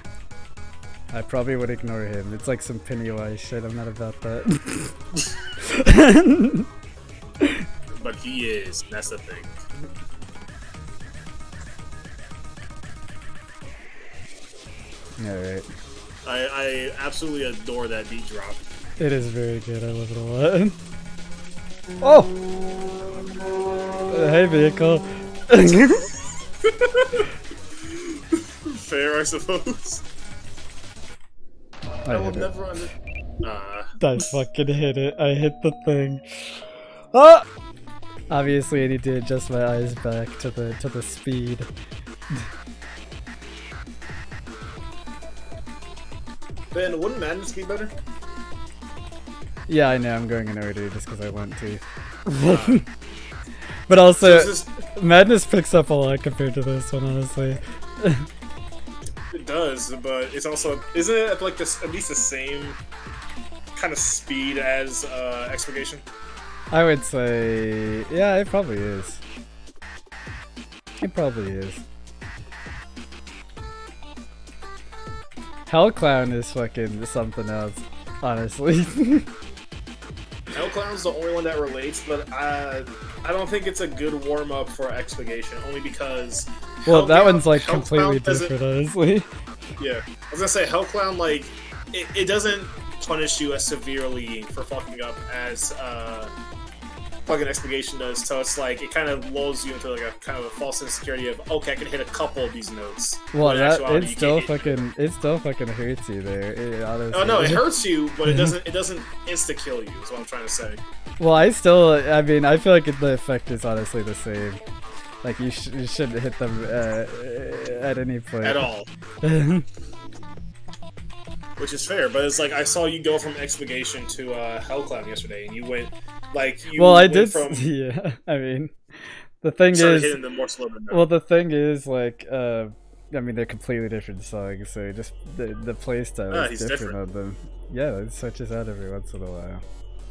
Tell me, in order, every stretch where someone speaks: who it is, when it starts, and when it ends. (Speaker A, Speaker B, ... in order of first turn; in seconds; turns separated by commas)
Speaker A: 1.1-5.0, Speaker A: 5.6-6.7, Speaker B: 8.0-9.6, Speaker A: 15.2-15.7, Speaker B: 16.2-18.6, Speaker A: 19.0-20.8, Speaker A: 22.0-22.3, Speaker A: 24.1-26.1, Speaker B: 26.6-27.3, Speaker B: 27.9-30.0, Speaker A: 32.0-32.5, Speaker B: 32.1-34.0, Speaker A: 34.0-36.6, Speaker A: 37.1-37.5, Speaker A: 38.3-41.7, Speaker B: 46.7-47.9, Speaker A: 49.7-52.9, Speaker B: 52.5-52.8, Speaker A: 53.9-58.3, Speaker B: 54.2-54.7, Speaker B: 59.3-62.8, Speaker B: 63.8-66.0, Speaker A: 66.7-69.2, Speaker A: 71.0-71.8, Speaker A: 75.7-79.3, Speaker B: 80.5-88.5, Speaker A: 86.9-89.3, Speaker B: 89.8-96.3, Speaker B: 97.3-104.8, Speaker A: 103.3-107.7, Speaker B: 107.1-110.8, Speaker A: 111.2-114.6, Speaker A: 115.2-118.7, Speaker B: 118.4-118.9, Speaker A: 119.2-119.7, Speaker B: 121.6-127.7, Speaker A: 126.8-128.7, Speaker A: 129.4-130.2, Speaker B: 129.7-131.1, Speaker A: 130.9-139.6, Speaker B: 136.3-137.0